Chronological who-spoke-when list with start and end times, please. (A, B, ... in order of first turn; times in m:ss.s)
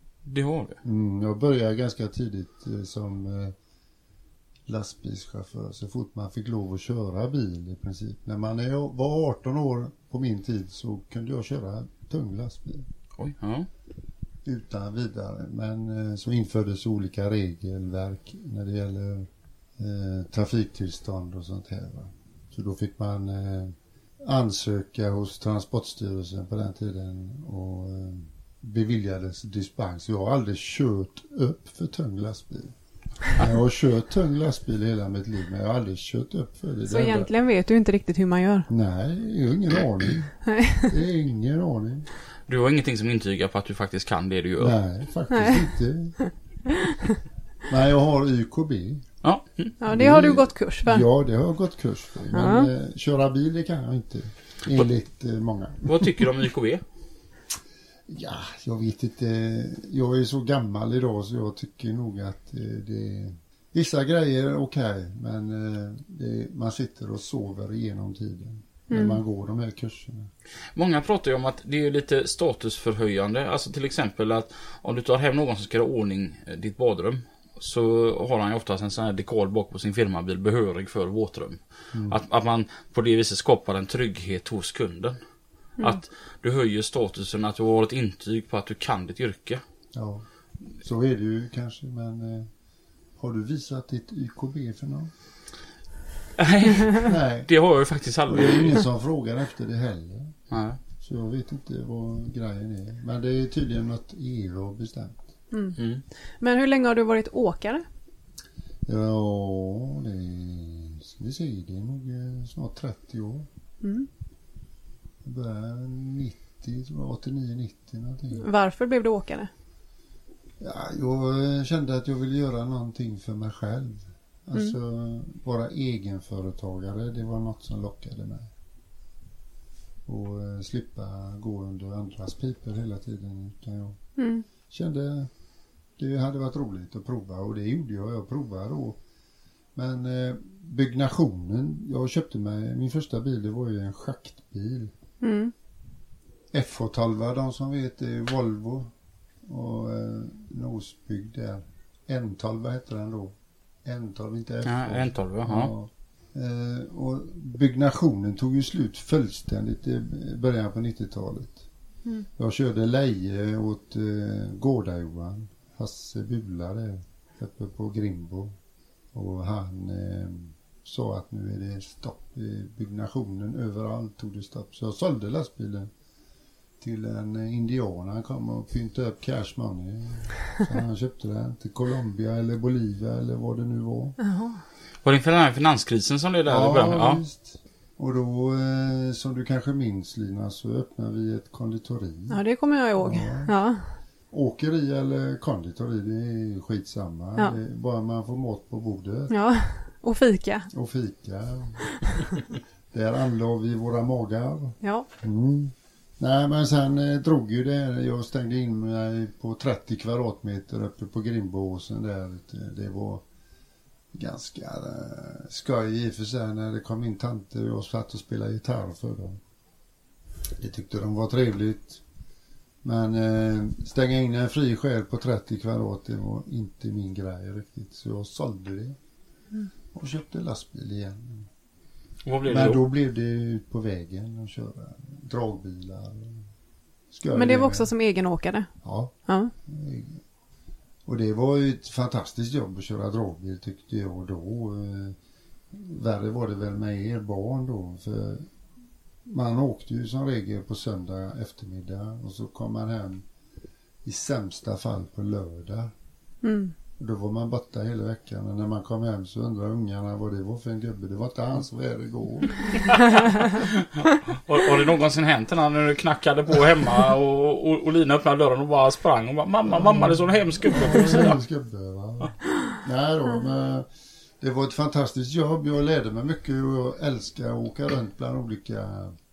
0:00.2-0:00.8 A
0:00.8-0:03.5 B
0:04.7-0:12.9 B
0:13.2-0:13.7 A
0:14.4-0:32.7 B
0:33.2-0:37.3 B
0:36.9-0:38.7 C
0:38.7-0:42.1 B
0:40.4-0:40.9 C
0:42.5-0:44.7 A
0:44.6-0:46.2 B
0:45.3-0:45.6 C
0:47.7-0:49.1 B
0:49.2-0:49.8 A
0:49.8-0:51.0 C
0:49.9-0:56.2 B
0:52.3-0:52.7 C
0:55.8-0:56.8 A
0:58.1-1:10.3 B
1:08.9-1:09.2 C
1:10.7-1:25.2 A
1:21.9-1:22.2 B
1:25.8-1:29.6 A
1:29.9-1:30.2 B
1:30.8-1:32.5 B
1:33.2-1:35.1 B
1:36.4-1:38.9 A
1:37.0-1:37.5 B
1:38.2-1:40.3 B
1:40.5-1:40.8 A
1:41.0-1:45.2 B
1:45.5-1:45.8 C
1:45.8-1:46.0 A
1:46.4-1:47.8 C
1:48.8-1:53.5 B
1:53.8-1:54.1 C
1:55.2-1:58.4 B
1:58.3-1:59.5 C
2:00.6-2:08.5 B
2:10.0-2:14.0 B
2:14.2-2:14.4 C
2:14.7-2:15.3 B
2:16.0-2:19.0 B
2:19.7-2:24.9 B
2:25.2-2:25.5 C
2:26.5-2:28.9 B
2:29.4-2:41.6 B
2:34.6-2:35.7 A
2:42.4-2:48.5 B
2:49.1-2:55.9 B
2:56.8-3:04.2 B
3:04.2-3:04.6 C
3:05.0-3:07.2 A
3:06.4-3:12.4 B
3:12.3-3:13.9 C
3:13.0-3:13.5 B
3:14.3-3:19.3 B
3:19.3-3:20.7 C
3:20.7-3:21.8 B
3:22.9-3:33.2 B
3:24.8-3:25.1 C
3:34.1-3:39.4 B
3:40.6-3:42.0 B
3:42.8-3:49.0 B
3:49.9-3:51.5 B
3:52.2-3:52.8 A
3:52.5-3:56.5 B
3:57.1-3:57.9 B
3:57.3-3:58.7 C
3:58.8-3:59.1 B
3:59.2-3:59.5 C
3:59.6-4:00.2 B
4:01.0-4:05.2 B
4:05.7-4:08.5 B
4:09.2-4:13.2 B
4:14.0-4:15.9 B
4:16.4-4:16.7 C
4:17.0-4:22.8 B
4:23.6-4:31.4 A
4:29.6-4:33.9 B
4:34.4-4:39.2 B